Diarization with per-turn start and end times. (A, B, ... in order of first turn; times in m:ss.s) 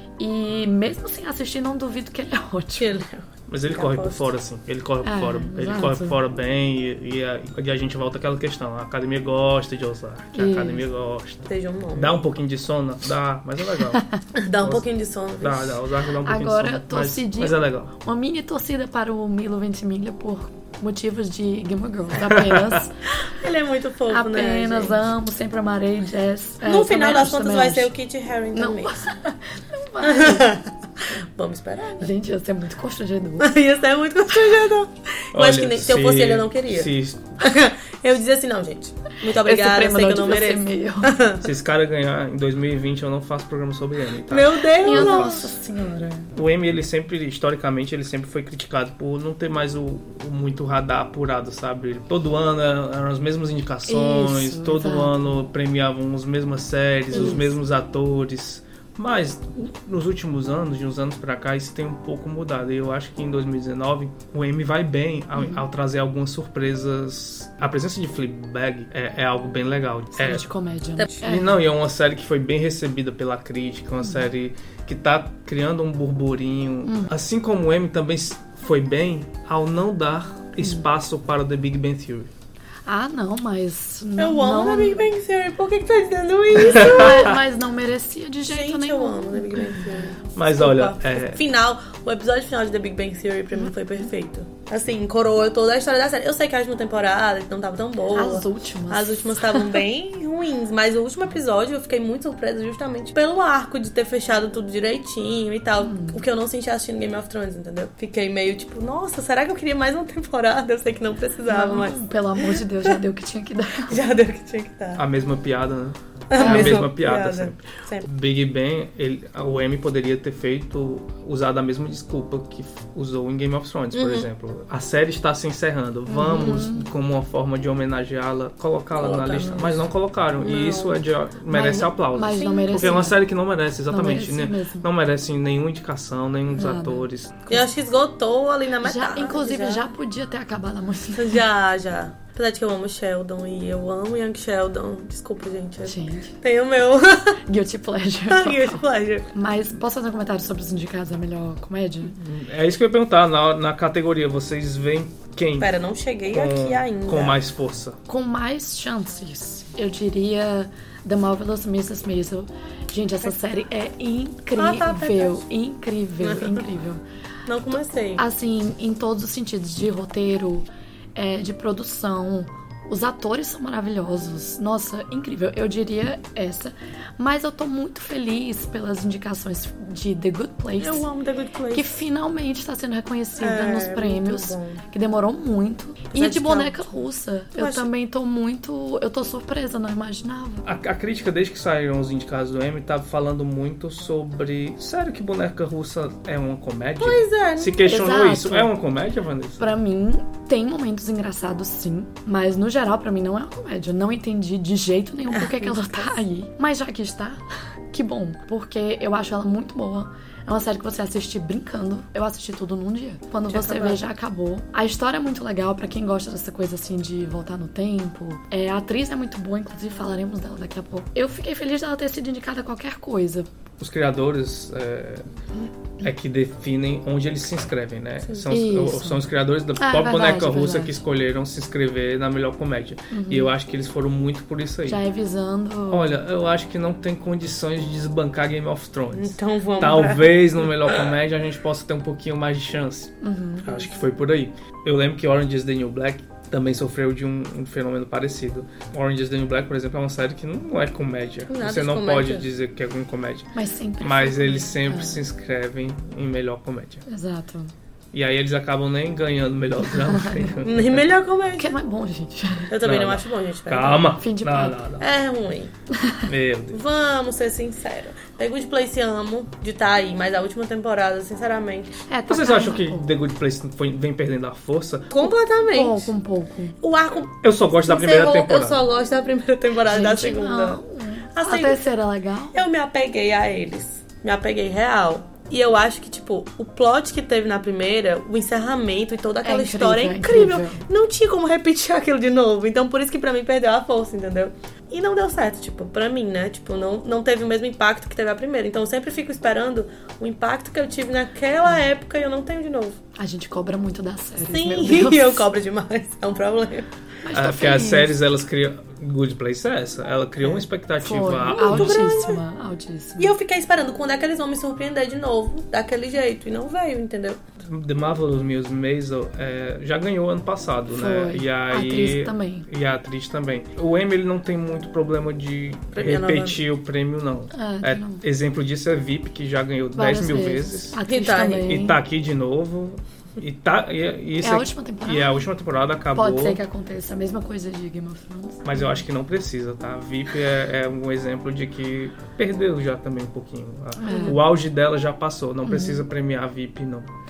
0:00.2-0:03.0 A
0:02.8-0:04.3 B
0:03.5-0:14.0 C
0:05.0-0:06.2 A
0:10.3-0:10.8 A
0:11.5-0:12.2 B
0:14.4-0:15.8 B
0:15.4-0:17.9 C
0:16.2-0:23.0 A
0:22.2-0:22.8 C
0:23.2-0:25.0 B
0:24.1-0:27.9 A
0:26.6-0:28.9 B
0:28.5-0:30.5 A
0:30.0-0:32.1 B
0:32.0-0:33.5 A
0:33.4-0:36.9 B
0:35.3-0:37.4 C
0:37.4-0:41.5 B
0:39.2-0:41.2 A
0:41.4-0:45.4 C
0:44.3-0:45.5 B
0:44.8-0:46.3 A
0:46.3-1:10.4 C
0:53.9-0:55.3 A
0:57.1-0:57.5 A
1:10.2-1:11.5 A
1:11.2-1:22.3 C
1:16.8-1:17.1 A
1:22.8-1:25.0 A
1:24.2-1:27.4 B
1:26.6-1:30.0 A
1:26.7-1:27.4 C
1:28.5-1:52.9 B
1:30.3-1:31.4 C
1:38.1-1:39.8 A
1:45.8-1:46.2 A
1:51.5-1:54.0 A
1:53.9-1:55.0 B
1:55.0-2:17.6 C
1:56.3-1:58.1 B
1:56.4-1:56.8 A
2:03.9-2:04.3 B
2:06.1-2:06.9 A
2:06.3-2:06.6 B
2:09.0-2:09.8 B
2:10.4-2:11.0 B
2:11.5-2:13.2 A
2:12.4-2:13.0 B
2:13.9-2:14.9 A
2:16.5-2:17.1 A
2:17.5-2:19.9 B
2:18.8-2:21.4 A
2:21.2-2:27.4 B
2:25.8-2:26.3 A
2:27.5-2:32.2 A
2:28.3-2:29.3 B
2:32.1-2:35.8 C
2:35.6-2:37.4 B
2:36.3-2:38.0 C
2:38.1-2:47.0 A
2:44.6-2:45.4 B
2:46.2-2:46.6 B
2:47.4-2:48.2 B
2:48.2-3:01.1 A
3:00.8-3:01.9 B
3:01.7-3:10.6 A
3:03.4-3:04.8 B
3:06.1-3:07.0 B
3:07.6-3:07.9 B
3:10.6-3:19.6 C
3:17.0-3:17.8 B
3:17.8-3:18.7 A
3:19.6-3:43.5 A
3:25.3-3:26.1 B
3:33.5-3:34.0 B
3:43.8-3:45.3 C
3:46.0-3:55.0 C
3:48.5-3:49.2 A
3:49.8-3:51.0 A
3:53.1-3:53.5 A
3:54.9-3:56.2 A
3:55.9-4:17.0 C
3:59.1-4:01.1 B
4:03.2-4:03.8 A
4:11.5-4:12.4 B
4:13.5-4:15.2 A
4:17.1-4:17.7 A
4:18.1-4:21.0 C
4:19.9-4:20.5 A
4:20.6-4:21.7 B
4:21.6-4:22.7 A
4:22.7-4:24.1 B
4:22.8-4:25.0 C
4:24.1-4:24.8 A
4:25.0-4:25.7 B
4:25.9-4:26.2 A
4:26.2-4:26.8 C
4:26.7-4:32.0 B
4:32.1-4:33.1 A
4:32.3-4:35.3 C
4:35.1-4:36.1 B
4:35.6-4:36.8 A
4:36.8-4:40.8 B
4:37.4-4:38.8 C
4:39.8-4:42.6 A
4:41.3-4:41.8 B
4:42.5-5:03.0 B
4:49.4-4:50.8 A
5:03.2-5:05.4 A
5:04.4-5:06.9 B
5:07.2-5:08.1 A
5:07.3-5:12.1 C
5:11.0-5:13.3 A
5:11.4-5:12.4 B
5:13.2-5:17.4 B
5:17.6-5:31.0 C
5:20.9-5:22.7 A
5:25.9-5:26.6 B
5:27.5-5:28.2 A
5:29.9-5:32.0 A
5:31.0-5:31.8 B
5:31.6-5:36.6 C
5:34.4-5:35.5 A
5:36.1-5:39.0 A
5:38.6-5:47.1 C
5:44.0-5:44.4 A
5:45.6-5:46.0 A